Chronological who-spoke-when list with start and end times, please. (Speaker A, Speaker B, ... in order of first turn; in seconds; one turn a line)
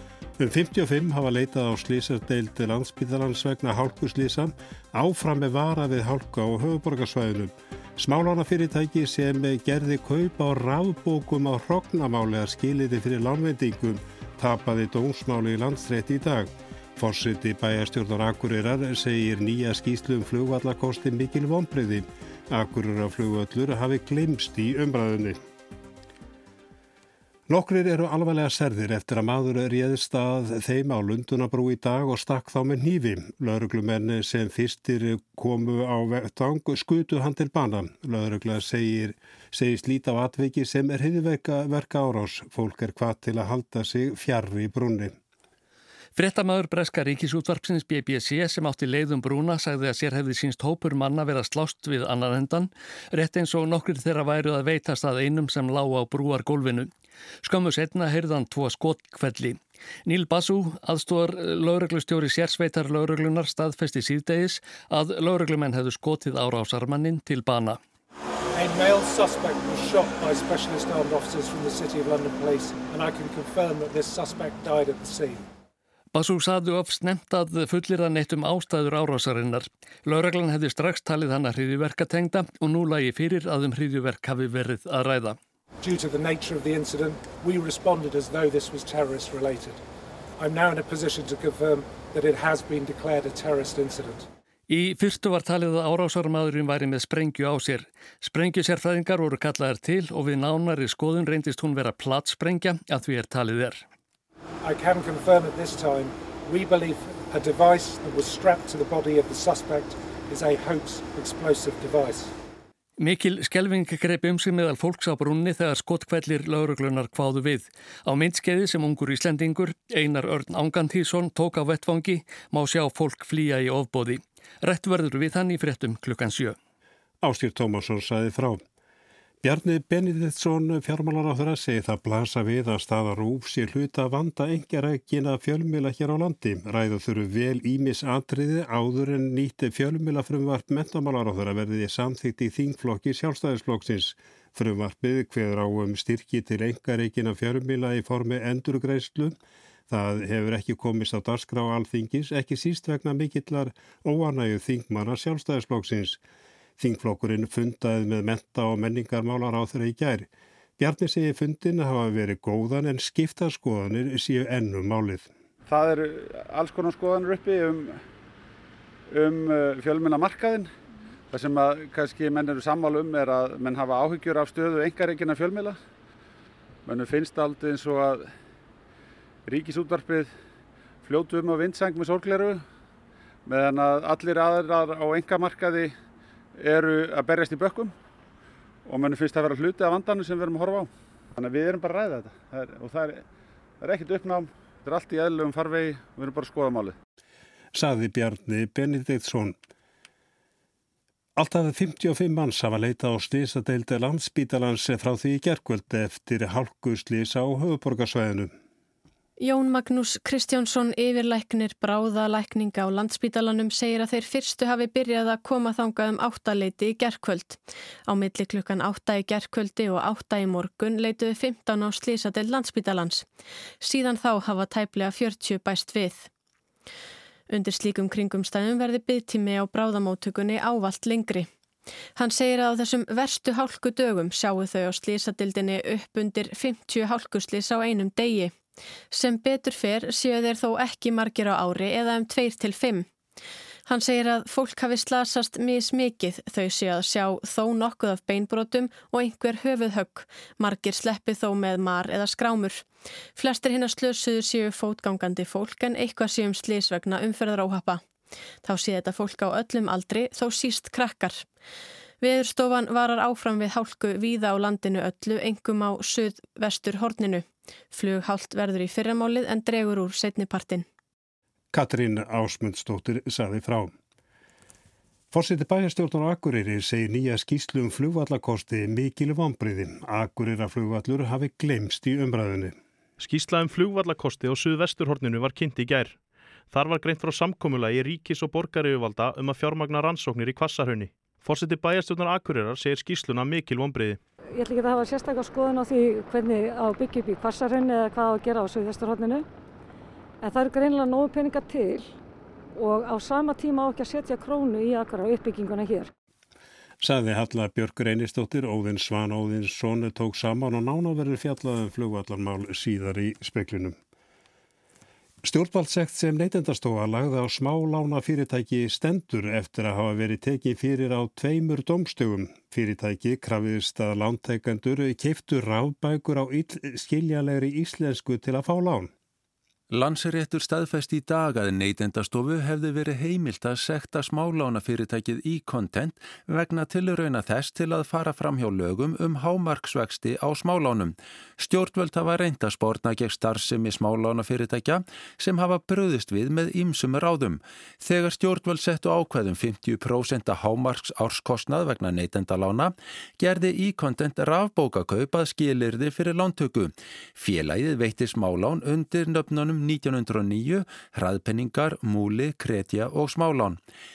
Speaker A: 0.4-25.4
Speaker A: 27.5-45.2
Speaker B: 46.1-56.9
Speaker B: 57.4-67.8
Speaker C: 68.5-75.4
Speaker B: 76.1-85.4
Speaker C: 85.8-89.8
Speaker C: 90.4-94.3
Speaker B: 94.7-103.8
Speaker C: 104.6-112.3
Speaker B: 113.0-126.6
Speaker A: 127.2-128.6
Speaker A: 129.4-149.3
Speaker A: 149.9-156.2
Speaker A: 156.8-160.3
Speaker A: 160.8-165.3
Speaker D: 165.7-168.0
Speaker D: 169.1-170.7
Speaker D: 171.3-175.8
Speaker D: 176.9-178.3
Speaker D: 179.5-180.3
Speaker D: 181.0-182.6
Speaker D: 183.5-185.9
Speaker D: 186.6-187.9
Speaker D: 188.9-193.2
Speaker D: 193.8-197.0
Speaker A: 197.7-199.6
Speaker A: 201.4-208.5
Speaker E: 209.4-223.3
Speaker E: 223.8-226.3
Speaker E: 227.5-231.5
Speaker E: 232.2-238.5
Speaker E: 239.1-243.1
Speaker E: 243.9-252.8
Speaker E: 253.4-258.0
Speaker E: 258.6-261.5
Speaker E: 262.2-270.9
Speaker A: 271.7-273.9
Speaker A: 275.3-282.8
Speaker F: 283.2-294.2
Speaker G: 294.5-299.4
Speaker G: 300.4-302.1
Speaker G: 302.8-306.1
Speaker A: 307.0-313.9
Speaker A: 315.4-329.1
Speaker H: 329.9-363.8